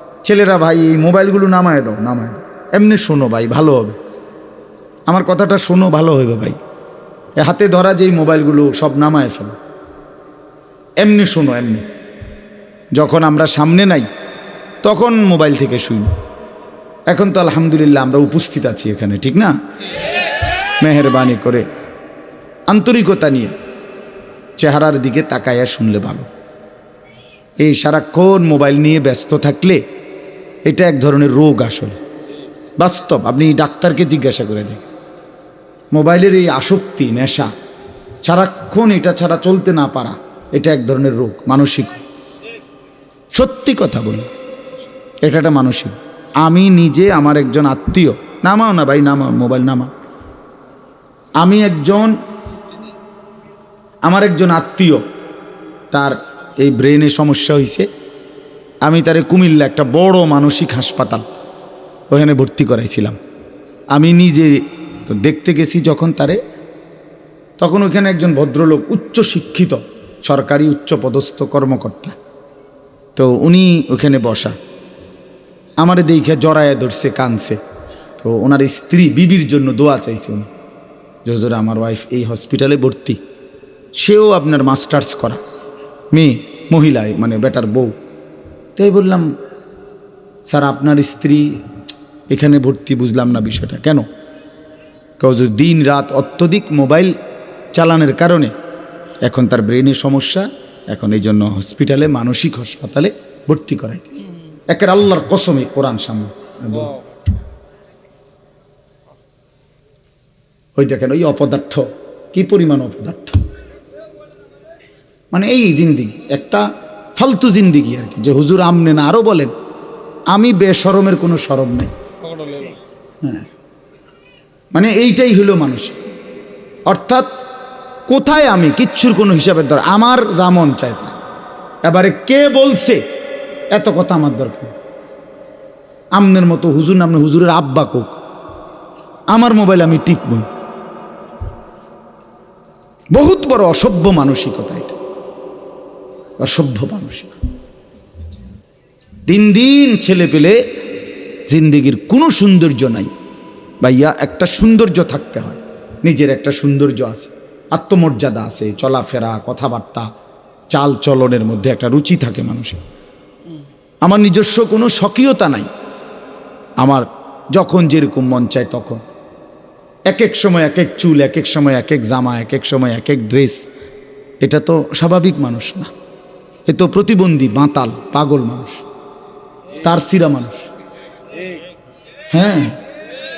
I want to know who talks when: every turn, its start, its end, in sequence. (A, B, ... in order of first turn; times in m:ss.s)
0:00.2-0:04.0 A
0:05.1-0:06.6 A
0:07.4-0:09.6 A
0:11.0-0:11.9 A
0:13.0-0:14.1 A
0:14.8-0:16.1 A
0:17.1-0:19.6 A
0:20.8-0:21.7 A
0:22.7-0:23.6 A
0:24.6-0:26.3 A
0:27.6-0:29.8 A
0:30.7-0:32.0 A
0:32.8-0:34.9 A
0:35.9-0:37.5 A
0:38.2-0:42.0 A
0:43.3-0:44.3 A
0:45.2-0:49.9 A
0:51.4-0:52.1 A
0:54.1-0:55.0 A
0:55.9-0:57.9 A
0:58.8-1:01.2 A
1:02.1-1:03.2 A
1:03.9-1:06.4 A
1:07.6-1:12.2 A
1:13.2-1:14.6 A
1:15.8-1:17.6 A
1:18.2-1:20.5 A
1:21.2-1:23.2 A
1:24.0-1:25.4 A
1:26.1-1:28.0 A
1:28.8-1:29.3 A
1:30.5-1:31.6 A
1:32.3-1:34.0 A
1:35.2-1:37.2 A
1:37.7-1:38.5 A
1:39.2-1:47.0 A
1:50.8-1:53.4 A
1:55.3-1:56.6 A
1:57.2-1:59.5 A
2:00.3-2:01.9 A
2:04.7-2:06.0 A
2:06.9-2:07.3 A
2:08.1-2:11.2 A
2:11.8-2:13.0 A
2:13.7-2:14.7 A
2:16.2-2:18.1 A
2:19.3-2:20.5 A
2:23.1-2:25.0 A
2:26.4-2:27.3 A
2:29.3-2:30.6 A
2:31.5-2:33.1 A
2:33.8-2:40.1 A
2:40.7-2:42.8 A
2:44.0-2:45.7 A
2:46.8-2:49.0 A
2:50.1-2:53.6 A
2:54.4-2:55.9 A
2:56.7-2:58.8 A
2:59.8-3:00.7 A
3:02.3-3:02.8 A